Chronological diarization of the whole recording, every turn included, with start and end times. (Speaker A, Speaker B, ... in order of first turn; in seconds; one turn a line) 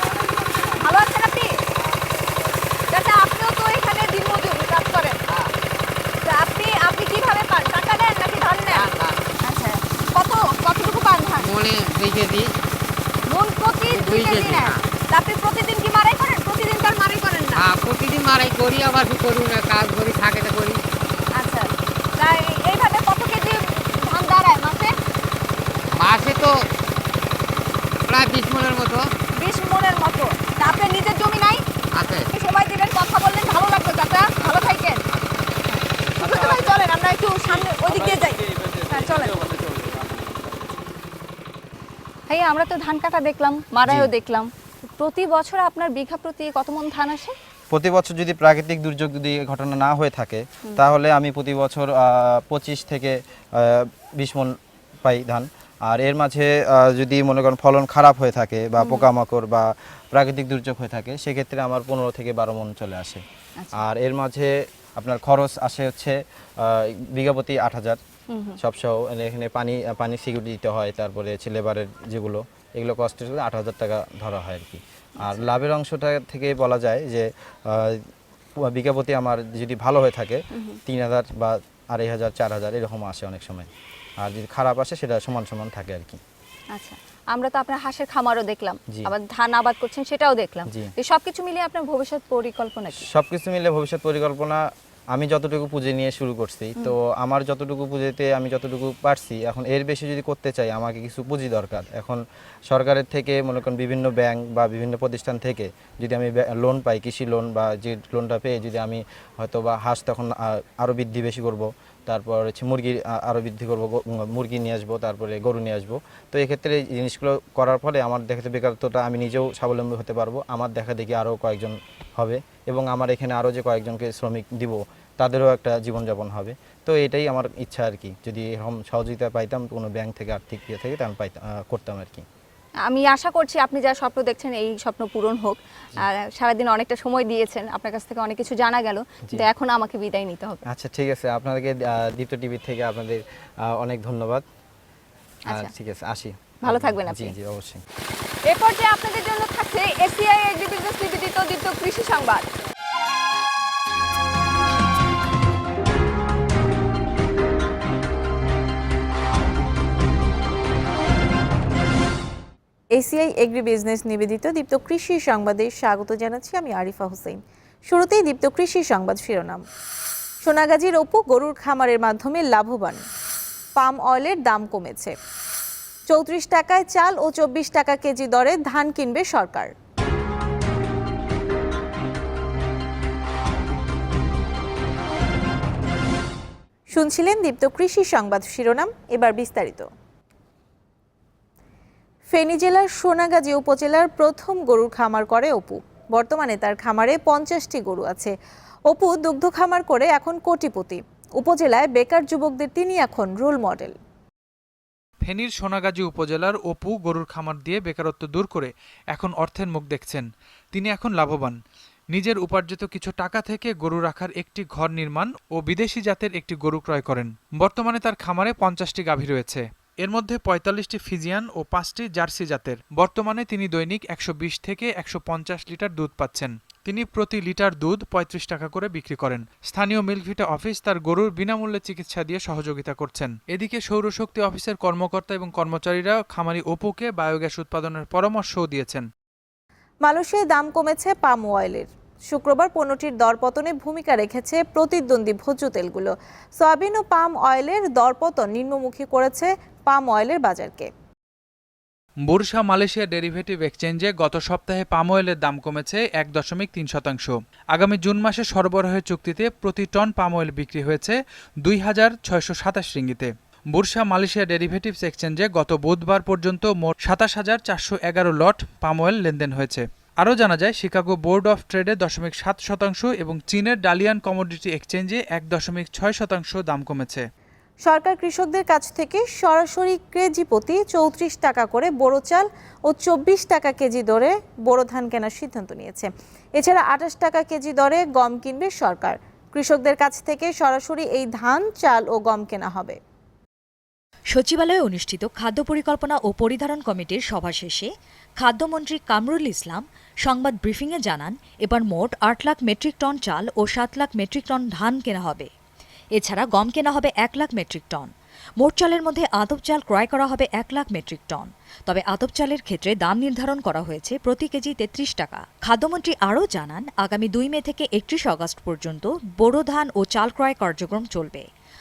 Speaker A: 0.7-1.5
Speaker A: 2.9-5.2
Speaker A: 6.2-11.5
Speaker B: 8.8-9.2
Speaker B: 11.4-12.5
Speaker A: 13.3-17.7
Speaker B: 13.8-14.8
Speaker B: 17.6-20.8
Speaker A: 21.4-24.9
Speaker B: 25.9-26.7
Speaker B: 28.1-29.1
Speaker A: 29.4-31.6
Speaker B: 31.9-32.3
Speaker A: 32.3-35.0
Speaker A: 35.7-39.5
Speaker A: 42.3-47.3
Speaker C: 43.9-44.1
Speaker C: 47.7-63.2
Speaker A: 58.8-59.1
Speaker C: 63.8-68.0
Speaker A: 68.3-68.6
Speaker C: 68.6-78.0
Speaker A: 75.2-75.5
Speaker C: 78.7-83.7
Speaker A: 80.5-80.8
Speaker C: 84.2-86.2
Speaker A: 86.7-93.1
Speaker C: 93.0-132.2
Speaker A: 132.8-140.6
Speaker C: 140.7-144.4
Speaker C: 145.5-147.8
Speaker A: 146.6-147.3
Speaker A: 148.5-152.5
Speaker D: 162.9-167.4
Speaker D: 167.9-169.6
Speaker D: 170.4-173.0
Speaker D: 173.8-175.1
Speaker D: 176.1-179.7
Speaker D: 186.9-189.9
Speaker D: 192.3-198.3
Speaker D: 198.9-203.9
Speaker E: 205.2-211.6
Speaker E: 212.1-239.1
Speaker D: 240.0-250.9
Speaker E: 252.3-277.2
Speaker D: 277.8-293.0
Speaker F: 294.3-305.5
Speaker F: 306.1-321.5